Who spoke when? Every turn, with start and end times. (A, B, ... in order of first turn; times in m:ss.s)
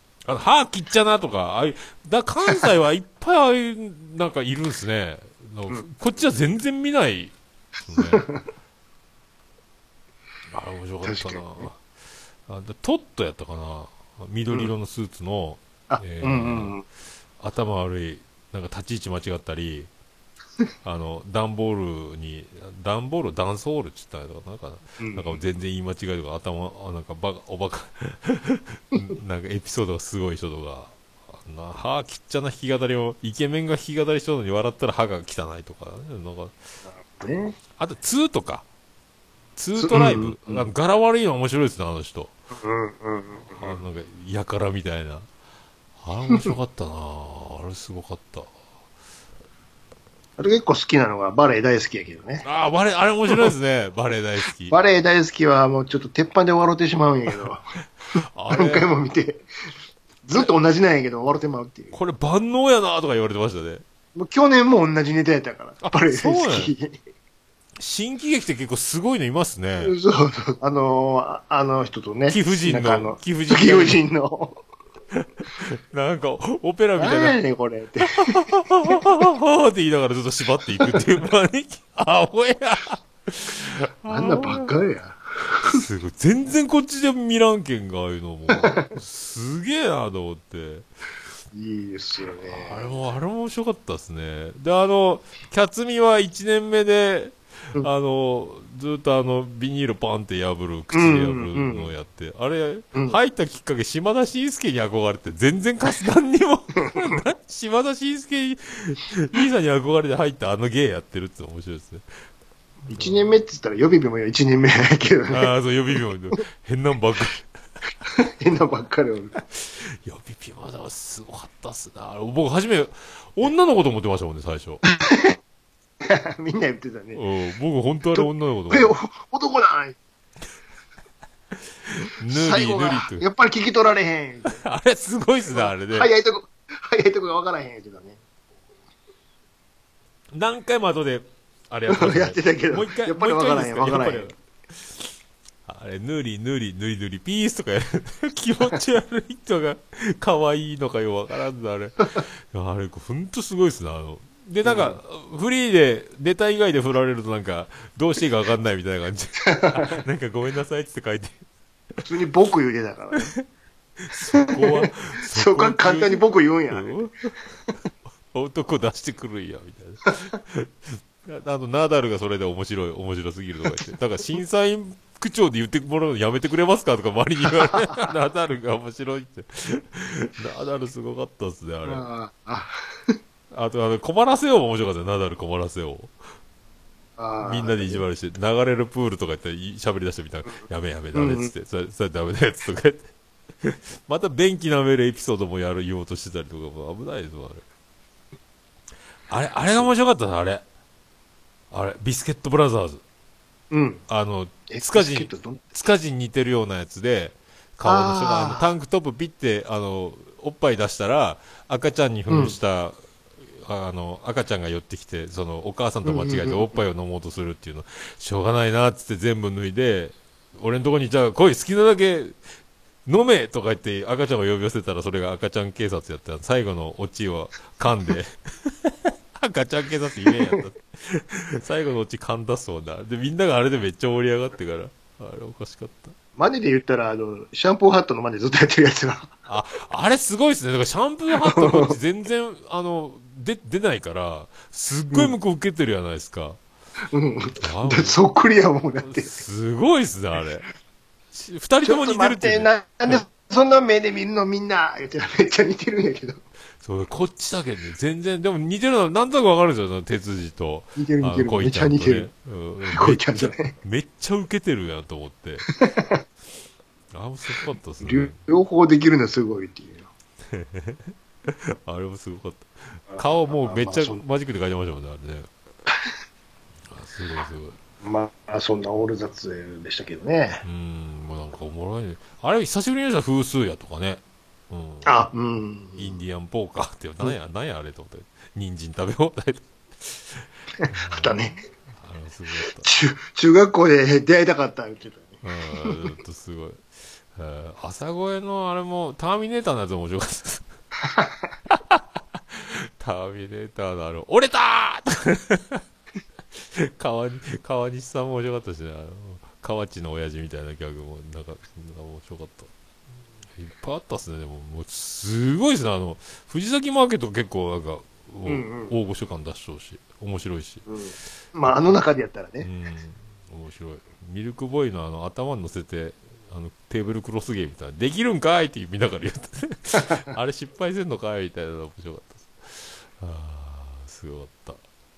0:00.2-0:08.2 A
0:08.0-0:08.4 B
0:10.5-0:11.8 A
0:11.0-0:11.7 B
0:12.5-0:16.8 A
0:15.9-0:16.8 B
0:17.4-0:19.9 A
0:20.8-0:36.6 A
0:25.0-0:25.4 B
0:36.9-0:37.6 B
0:37.8-0:38.7 A
0:39.6-0:42.3 A
0:39.8-0:40.7 B
0:42.5-0:43.8 B
0:43.6-0:45.3 A
0:46.0-0:48.5 A
0:50.4-0:52.5 B
0:52.4-0:54.8 A
0:54.7-0:57.6 B
0:58.4-0:58.9 A
0:58.5-0:59.4 B
1:00.2-1:02.0 B
1:01.9-1:03.8 A
1:04.2-1:07.0 B
1:05.8-1:06.7 A
1:07.8-1:10.0 A
1:09.8-1:14.6 B
1:12.3-1:14.0 A
1:15.4-1:17.4 A
1:17.0-1:19.2 B
1:18.0-1:24.7 A
1:20.8-1:21.0 B
1:24.1-1:25.8 B
1:25.6-1:30.9 A
1:28.5-1:29.0 B
1:31.5-1:32.9 B
1:32.4-1:52.2 A
1:40.9-1:41.9 B
1:52.9-1:55.5 B
1:52.9-1:53.3 A
1:55.3-1:57.5 A
1:58.0-1:59.4 B
1:59.5-2:04.8 A
2:04.8-2:05.4 B
2:06.0-2:07.2 B
2:07.1-2:09.0 A
2:08.1-2:10.0 B
2:11.9-2:13.2 A
2:12.3-2:14.6 B
2:14.5-2:16.1 A
2:15.5-2:18.2 B
2:20.3-2:24.4 A
2:21.9-2:24.3 B
2:25.7-2:41.4 A
2:34.6-2:35.0 B
2:39.4-2:40.0 B
2:42.0-2:43.3 B
2:44.0-2:47.3 A
2:44.3-2:47.0 B
2:48.3-3:02.0 A
2:50.1-2:50.3 B
2:57.7-2:58.1 B
3:01.8-3:03.1 B
3:03.5-3:06.2 A
3:07.2-3:08.0 B
3:07.4-3:13.1 A
3:11.1-3:11.5 B
3:13.6-3:17.6 A
3:19.3-3:20.6 A
3:21.7-3:23.0 A
3:23.7-3:24.0 B
3:24.1-3:33.0 A
3:24.7-3:25.8 B
3:27.8-3:28.7 B
3:32.3-3:32.6 B
3:33.6-3:42.4 A
3:36.0-3:36.7 B
3:43.1-3:56.2 A
3:56.4-3:59.3 B
3:59.5-4:06.6 A
4:01.3-4:02.0 B
4:07.1-4:09.4 B
4:07.6-4:08.2 A
4:09.0-4:10.7 A
4:11.3-4:13.2 A
4:11.8-4:16.4 B
4:16.8-4:25.7 A
4:21.0-4:22.3 B
4:22.9-4:23.7 B
4:25.7-4:26.2 B
4:27.1-4:28.4 A
4:28.0-4:30.1 B
4:30.5-4:35.5 A
4:33.1-4:34.2 B
4:36.9-4:37.8 A
4:38.0-4:40.6 B
4:40.6-4:45.2 A
4:45.0-4:46.2 B
4:46.0-4:52.9 A
4:50.8-4:51.6 B
4:52.7-4:56.1 B
4:55.4-5:00.7 A
5:01.0-5:01.4 B
5:01.7-5:05.8 A
5:06.5-5:12.7 A
5:13.6-5:20.9 A
5:18.5-5:18.9 B
5:20.9-5:22.7 B
5:21.6-5:22.0 A
5:22.6-5:34.8 A